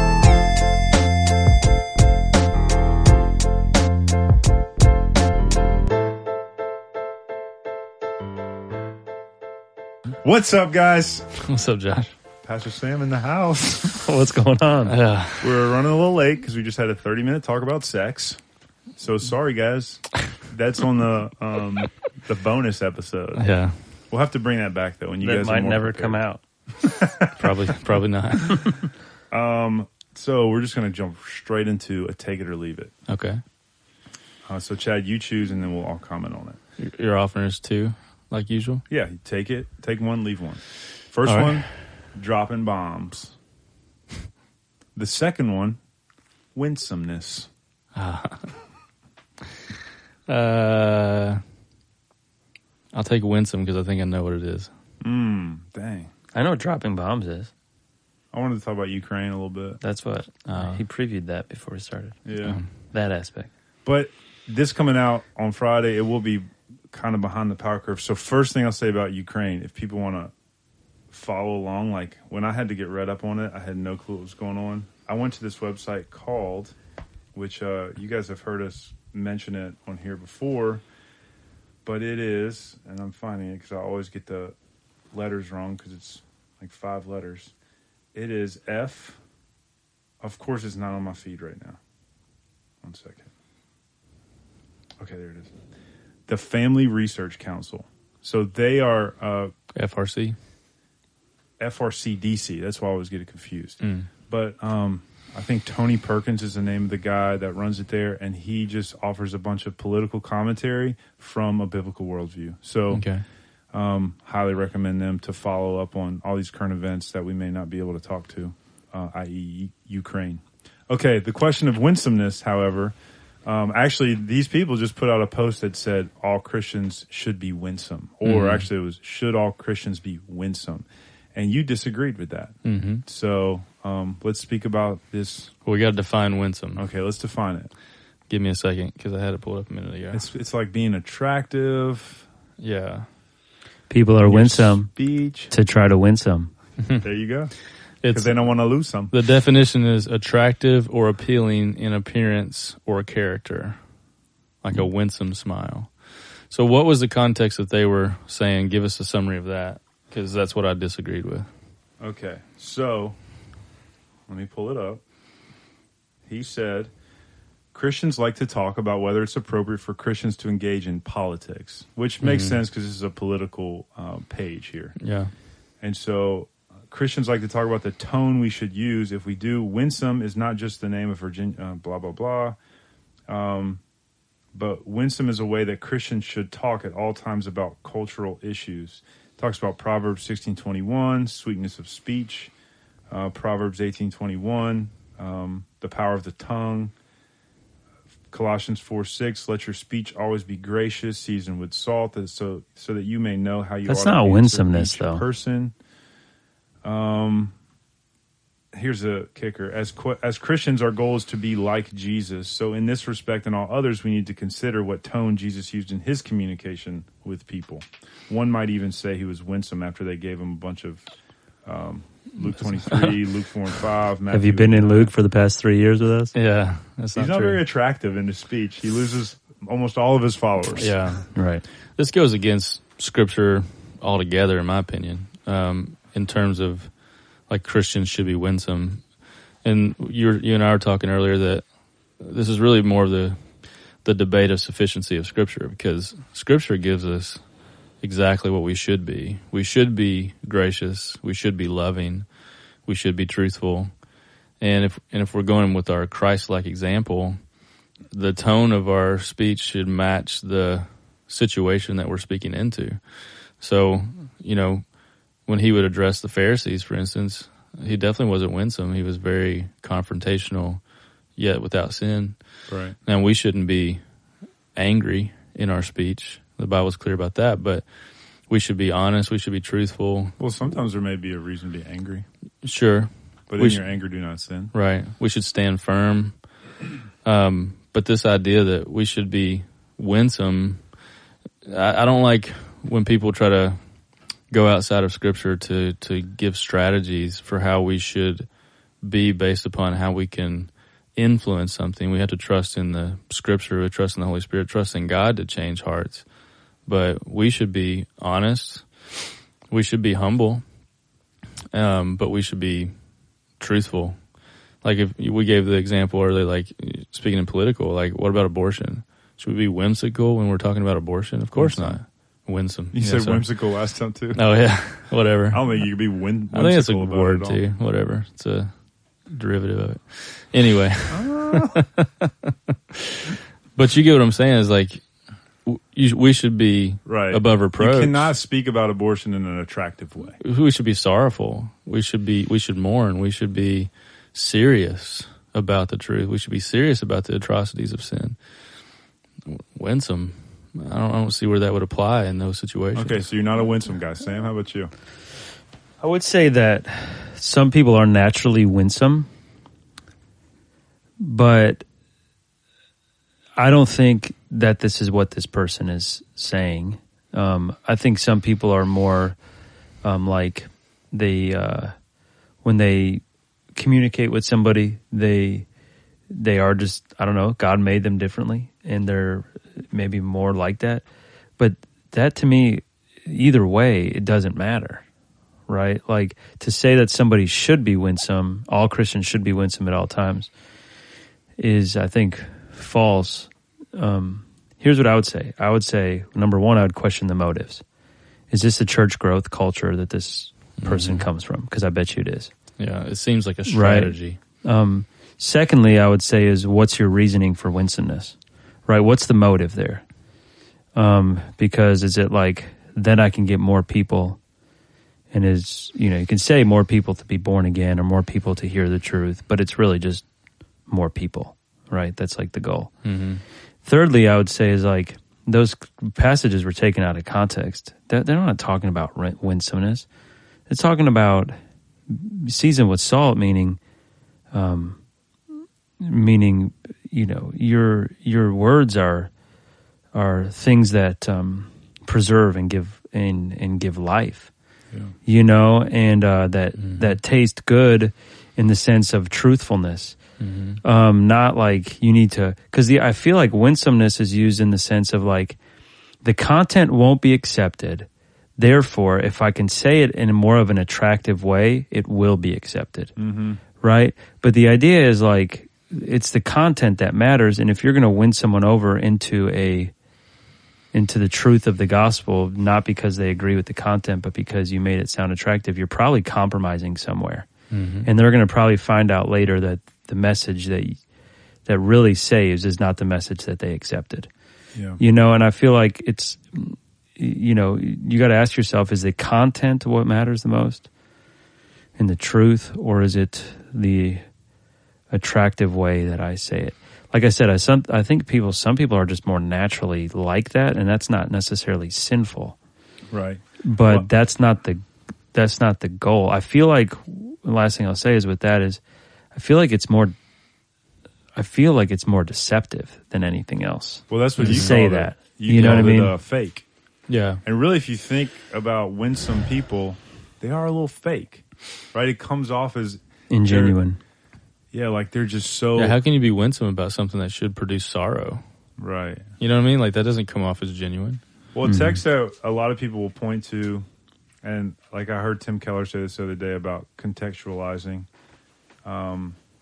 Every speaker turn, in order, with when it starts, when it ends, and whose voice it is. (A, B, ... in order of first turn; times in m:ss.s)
0:10.2-0:11.3 A
0:11.3-0:12.1 B
0:12.4-0:14.0 A
0:13.9-0:15.0 C
0:14.9-0:15.6 B
0:15.4-0:18.4 A
0:19.0-0:23.5 A
0:23.4-0:23.8 B
0:24.1-0:26.2 A
0:25.2-0:26.4 C
0:26.8-0:27.3 A
0:27.4-0:28.8 B
0:29.3-0:32.9 A
0:33.1-0:33.4 B
0:34.4-0:36.6 A
0:36.8-0:38.8 B
0:38.9-0:43.3 A
0:41.2-0:41.6 B
0:45.0-0:45.8 A
0:46.5-0:47.5 A
0:47.9-0:48.5 B
0:50.3-0:51.4 B
0:52.9-0:54.7 B
0:55.0-0:56.1 A
0:56.3-0:57.5 C
0:58.3-0:59.8 A
0:59.8-1:02.2 C
1:00.4-1:00.8 B
1:02.2-1:02.6 A
1:02.4-1:02.7 B
1:02.9-1:03.5 C
1:03.8-1:10.3 A
1:11.1-1:16.7 A
1:17.3-1:20.8 A
1:21.8-1:24.5 A
1:25.1-1:27.5 A
1:28.1-1:29.2 A
1:30.2-1:31.8 A
1:32.8-1:33.3 A
1:35.0-1:35.5 A
1:36.3-1:39.5 A
1:39.7-1:40.4 B
1:41.6-1:53.1 A
1:43.8-1:44.1 B
1:52.9-1:53.2 B
1:53.7-2:02.9 A
2:03.4-2:15.5 A
2:08.2-2:08.7 B
2:12.6-2:13.0 B
2:15.6-2:16.8 B
2:16.8-2:17.7 A
2:18.3-2:20.2 B
2:20.1-2:22.2 A
2:22.6-2:23.1 B
2:23.9-2:24.9 C
2:24.2-2:25.5 A
2:25.5-2:26.5 C
2:27.0-2:29.1 A
2:28.0-2:28.4 B
2:29.1-2:33.8 B
2:34.6-2:35.9 B
2:36.5-2:41.5 B
2:42.0-2:43.2 A
2:44.3-2:45.0 A
2:46.3-2:46.9 A
2:47.7-2:55.0 A
2:52.2-2:52.6 B
2:55.0-2:55.3 B
2:55.8-3:02.6 A
3:03.3-3:03.8 A
3:04.5-3:12.5 A
3:13.1-3:16.9 A
3:18.3-3:25.7 A
3:23.8-3:25.2 C
3:26.8-3:27.5 A
3:28.7-3:41.0 A
3:41.6-3:45.1 A
3:42.6-3:43.1 B
3:44.3-3:46.3 C
3:46.3-3:47.6 B
3:47.2-3:51.0 A
3:50.8-3:51.3 B
3:51.3-3:51.6 C
3:51.9-3:56.9 B
3:57.5-3:59.0 B
3:59.6-4:01.6 B
4:02.2-4:03.4 B
4:04.0-4:07.4 B
4:08.0-4:12.2 B
4:12.8-4:13.9 B
4:14.6-4:17.4 B
4:18.1-4:24.8 B
4:25.4-4:30.8 B
4:31.4-4:32.4 B
4:32.7-4:33.0 A
4:33.0-4:34.0 B
4:34.7-4:37.8 B
4:38.5-4:40.4 B
4:40.4-4:42.2 A
4:42.6-4:43.8 B
4:43.5-4:44.7 A
4:44.7-4:46.4 B
4:47.2-4:50.8 B
4:51.6-4:53.8 B
4:54.5-4:58.5 B
4:59.0-5:06.2 B
5:06.8-5:08.9 B
5:09.7-5:10.6 B
5:11.7-5:12.9 B
5:13.6-5:14.2 B
5:14.8-5:23.4 B
5:21.5-5:22.0 A
5:22.9-5:24.4 A
5:24.3-5:25.8 B
5:25.5-5:27.6 A
5:26.5-5:28.7 B
5:29.2-5:35.0 B
5:31.1-5:31.8 A
5:35.6-5:38.3 B
5:37.0-5:40.4 A
5:40.4-5:48.4 B
5:49.4-5:53.2 B
5:52.9-5:54.9 A
5:56.0-5:59.3 C
6:01.2-6:01.8 C
6:03.6-6:09.4 C
6:10.0-6:11.9 C
6:12.6-6:13.2 C
6:13.8-6:15.7 C
6:16.3-6:21.0 C
6:21.6-6:25.0 C
6:25.7-6:30.5 C
6:31.6-6:37.8 C
6:38.5-6:42.5 C
6:40.8-6:41.2 B
6:42.8-6:44.4 B
6:43.7-6:50.0 C
6:50.9-6:54.4 C
6:55.3-7:00.2 C
7:00.9-7:02.9 C
7:03.0-7:03.4 B
7:03.8-7:10.1 C
7:10.7-7:11.6 C
7:12.1-7:13.8 C
7:14.5-7:15.0 C
7:16.0-7:19.3 C
7:20.1-7:24.5 C
7:25.2-7:30.2 C
7:26.8-7:27.1 B
7:30.4-7:30.8 B
7:30.8-7:35.6 C
7:36.2-7:43.1 C
7:43.2-7:43.6 A
7:43.8-7:49.9 C
7:50.9-7:57.5 C
7:57.7-7:58.1 B
7:58.0-8:01.0 C
8:01.6-8:04.3 C
8:04.7-8:05.0 A
8:05.0-8:10.9 C
8:12.0-8:14.2 C
8:15.1-8:22.6 C
8:23.1-8:24.1 A
8:23.6-8:28.8 C
8:29.3-8:30.2 C
8:31.4-8:36.1 C
8:34.1-8:36.6 A
8:34.4-8:34.8 B
8:35.6-8:36.0 B
8:37.1-8:37.4 B
8:37.4-8:43.8 A
8:43.3-8:44.0 C
8:44.7-8:46.0 A
8:45.8-8:48.4 B
8:48.8-8:49.3 A
8:49.4-8:51.2 B
8:51.5-8:53.8 A
8:51.6-8:52.0 C
8:54.4-8:58.1 A
8:58.8-8:59.4 A